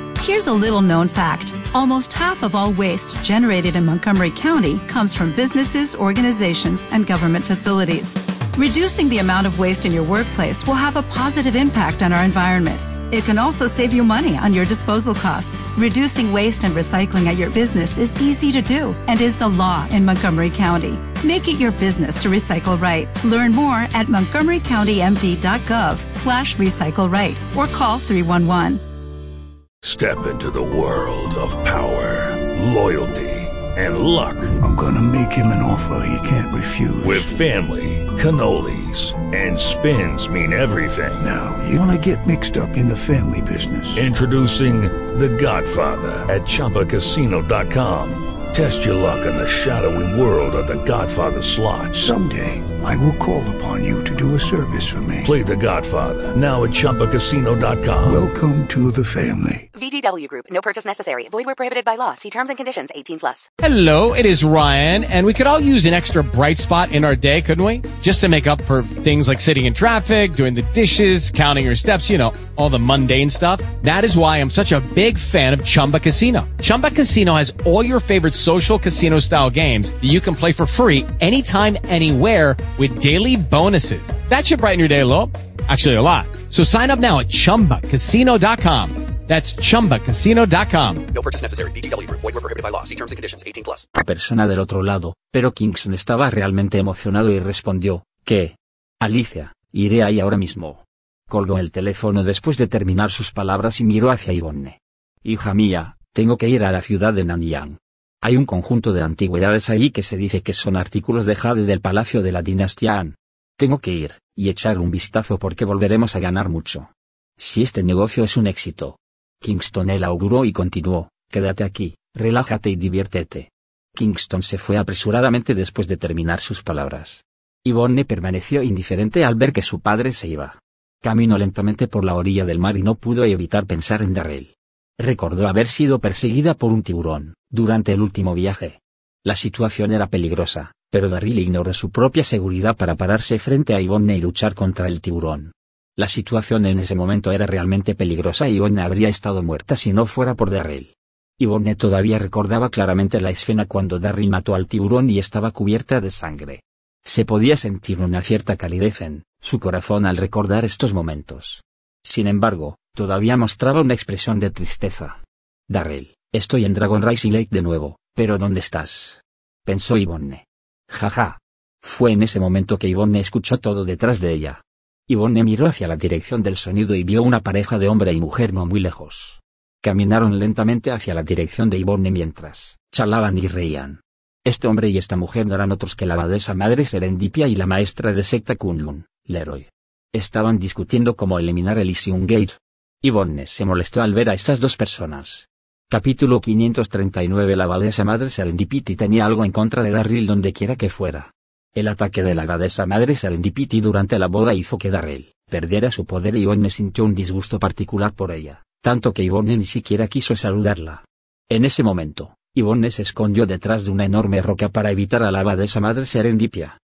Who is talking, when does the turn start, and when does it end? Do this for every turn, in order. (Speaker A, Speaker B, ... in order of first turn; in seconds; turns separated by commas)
Speaker A: 0.2-28.8, Speaker B: 29.8-34.5, Speaker C: 34.6-37.3, Speaker B: 37.0-41.3, Speaker C: 41.2-44.1, Speaker B: 43.9-52.1, Speaker C: 51.9-55.3, Speaker B: 55.2-58.2, Speaker C: 58.0-59.7, Speaker D: 59.7-63.5, Speaker E: 63.6-91.1, Speaker F: 91.1-93.9, Speaker G: 93.9-216.8